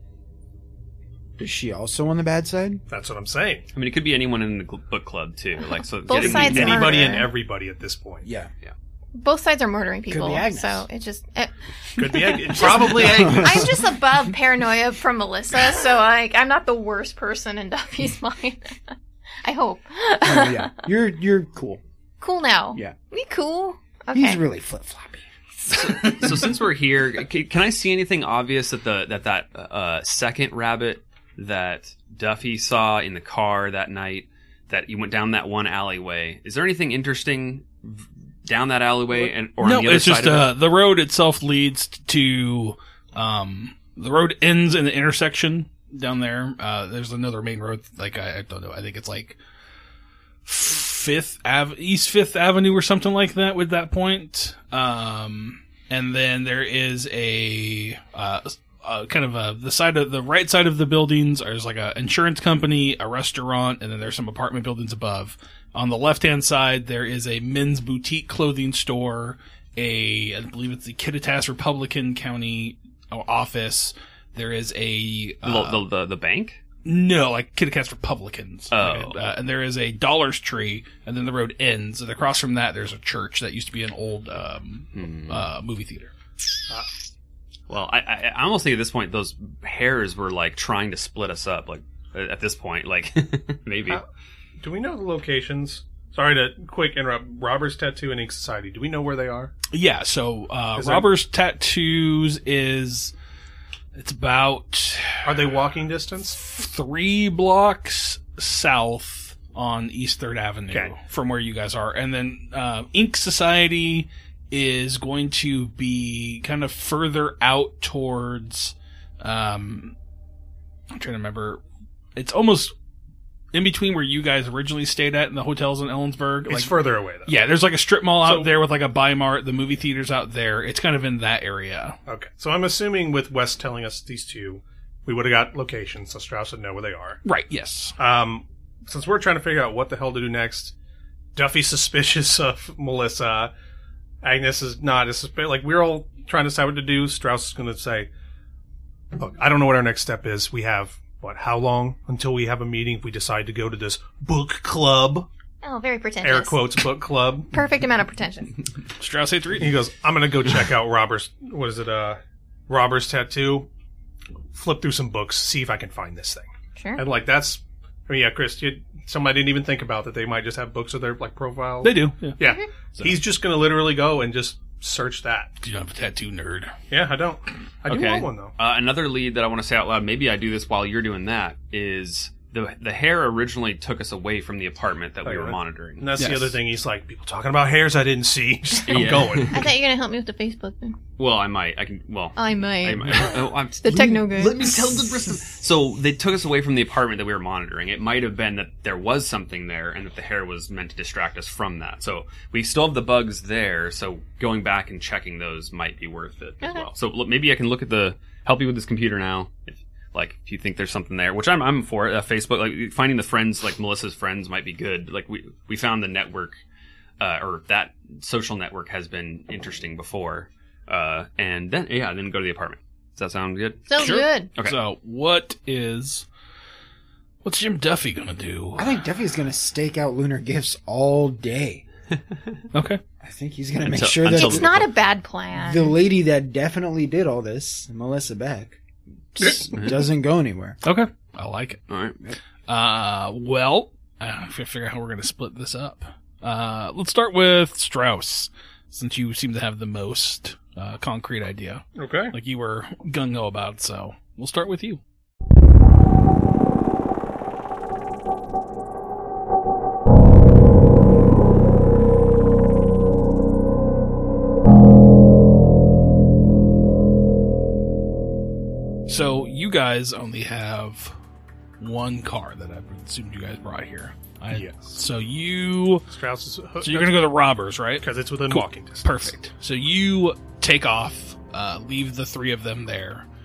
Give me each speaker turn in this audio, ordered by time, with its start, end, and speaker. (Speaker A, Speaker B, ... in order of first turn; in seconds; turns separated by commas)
Speaker A: 1.4-2.8, Speaker B: 2.9-3.6, Speaker C: 3.7-7.1, Speaker D: 6.0-7.3, Speaker B: 6.1-8.2, Speaker A: 8.2-8.5, Speaker D: 9.1-20.7, Speaker A: 10.1-10.9, Speaker B: 11.9-13.8, Speaker A: 12.9-13.7, Speaker A: 20.2-21.8, Speaker D: 22.2-24.4, Speaker A: 24.1-25.2, Speaker C: 25.7-40.5, Speaker E: 39.6-49.4, Speaker E: 50.4-75.9, Speaker C: 75.4-76.6, Speaker E: 76.8-86.1, Speaker C: 78.7-79.2, Speaker C: 84.9-85.4, Speaker C: 87.7-94.0, Speaker B: 94.6-99.5, Speaker E: 99.7-103.1, Speaker B: 100.8-101.1, Speaker E: 103.9-105.4, Speaker B: 105.2-106.4, Speaker E: 106.4-119.9, Speaker B: 110.7-111.0, Speaker E: 120.9-121.6, Speaker E: 122.2-122.7, Speaker E: 123.5-132.0, Speaker B: 126.5-127.4, Speaker B: 128.2-128.5, Speaker B: 132.1-137.2, Speaker E: 137.2-137.9, Speaker B: 138.0-140.7, Speaker B: 141.3-143.5, Speaker B: 144.2-148.1, Speaker B: 149.2-155.3, Speaker D: 155.6-156.6, Speaker B: 156.2-157.5, Speaker D: 157.5-158.6, Speaker E: 159.0-159.8, Speaker B: 159.6-163.7, Speaker B: 164.5-166.4, Speaker D: 166.8-167.0, Speaker B: 167.0-175.6, Speaker E: 171.8-172.4, Speaker E: 175.6-176.7, Speaker B: 176.9-178.5, Speaker C: 177.9-186.1, Speaker B: 185.2-189.7, Speaker E: 186.2-186.6, Speaker C: 188.9-189.7, Speaker D: 189.5-191.0, Speaker C: 191.2-216.6, Speaker D: 192.4-194.7, Speaker D: 206.6-206.9, Speaker C: 217.2-223.9, Speaker D: 223.9-224.5, Speaker E: 223.9-226.2, Speaker C: 224.5-224.8, Speaker E: 227.4-228.9, Speaker A: 228.8-231.8, Speaker E: 232.7-233.0, Speaker A: 233.2-234.8, Speaker C: 233.8-234.9, Speaker D: 234.3-235.9, Speaker A: 235.6-238.8, Speaker A: 239.3-240.8, Speaker C: 239.7-240.0, Speaker E: 240.8-241.8, Speaker C: 241.9-242.2, Speaker E: 242.7-255.0, Speaker B: 251.9-252.3, Speaker E: 269.1-271.1, Speaker E: 271.8-276.1, Speaker B: 274.5-275.0, Speaker B: 276.1-277.4, Speaker E: 276.8-283.2, Speaker B: 278.0-279.3